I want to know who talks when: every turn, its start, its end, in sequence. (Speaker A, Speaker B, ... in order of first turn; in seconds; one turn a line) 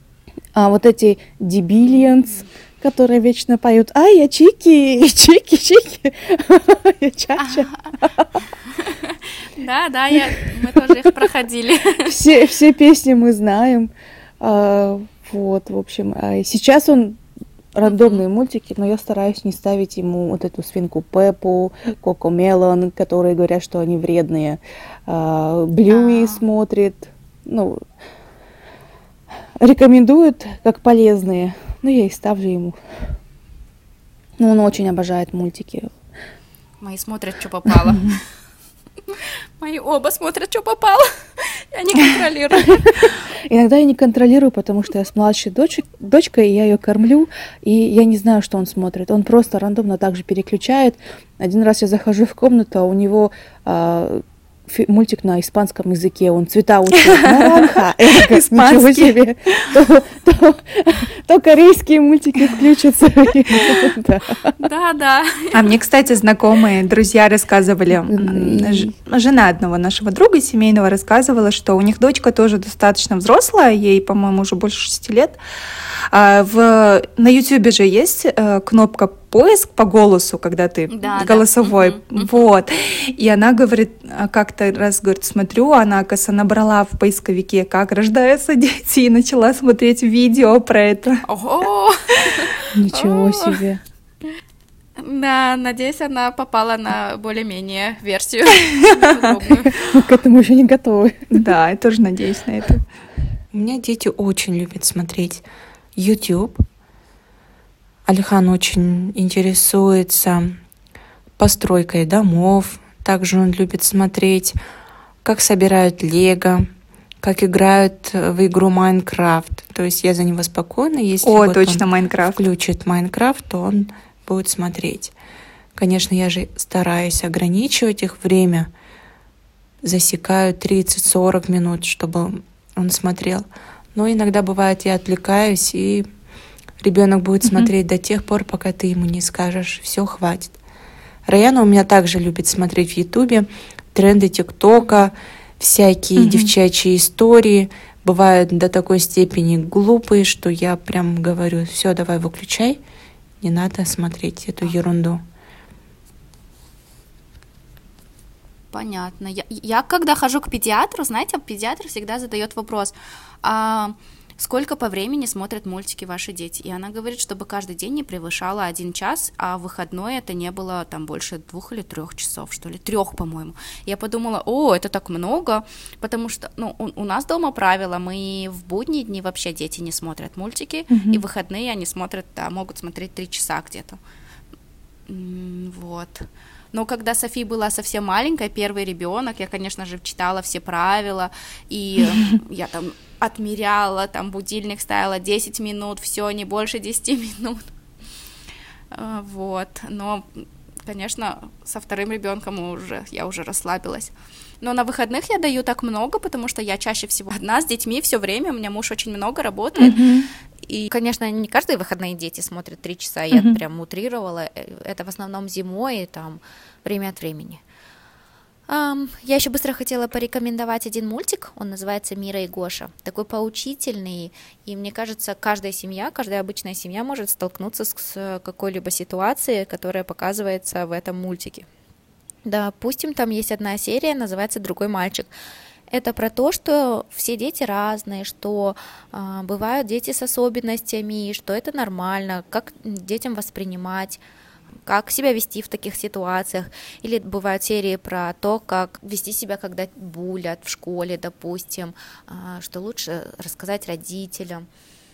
Speaker A: 0.5-8.4
Speaker B: 1.8-2.1
Speaker B: 7.4-7.9
Speaker B: 8.7-12.1
Speaker A: 12.1-17.2
Speaker A: 17.7-27.8
Speaker B: 17.8-18.2
Speaker B: 25.9-26.4
Speaker A: 29.6-32.8
Speaker A: 34.4-35.9
Speaker B: 36.8-38.1
Speaker B: 39.1-43.0
Speaker A: 42.6-64.5
Speaker C: 57.1-59.1
Speaker B: 64.6-65.7
Speaker C: 65.5-75.4
Speaker A: 68.1-68.9
Speaker C: 76.1-91.2
Speaker B: 80.9-82.3
Speaker B: 91.2-93.6
Speaker A: 92.7-93.8
Speaker B: 95.0-99.9
Speaker C: 98.8-99.2
Speaker A: 99.7-101.5
Speaker C: 101.3-102.8
Speaker D: 103.5-105.4
Speaker D: 106.0-106.6
Speaker D: 108.0-110.6
Speaker D: 111.4-114.5
Speaker D: 115.2-116.7
Speaker D: 117.2-121.8
Speaker C: 121.2-122.5
Speaker D: 122.4-125.1
Speaker D: 125.8-128.7
Speaker D: 129.8-136.1
Speaker D: 136.8-140.6
Speaker D: 141.3-152.8
Speaker C: 146.2-146.5
Speaker D: 153.4-155.2
Speaker B: 158.7-184.0
Speaker C: 180.9-181.2
Speaker B: 185.1-197.6
Speaker B: 198.9-210.0
Speaker C: 209.8-210.3
Speaker E: 210.8-217.6
Speaker C: 213.3-213.6
Speaker E: 218.7-231.7
Speaker E: 232.4-235.3
Speaker E: 235.9-244.2
Speaker E: 244.8-254.7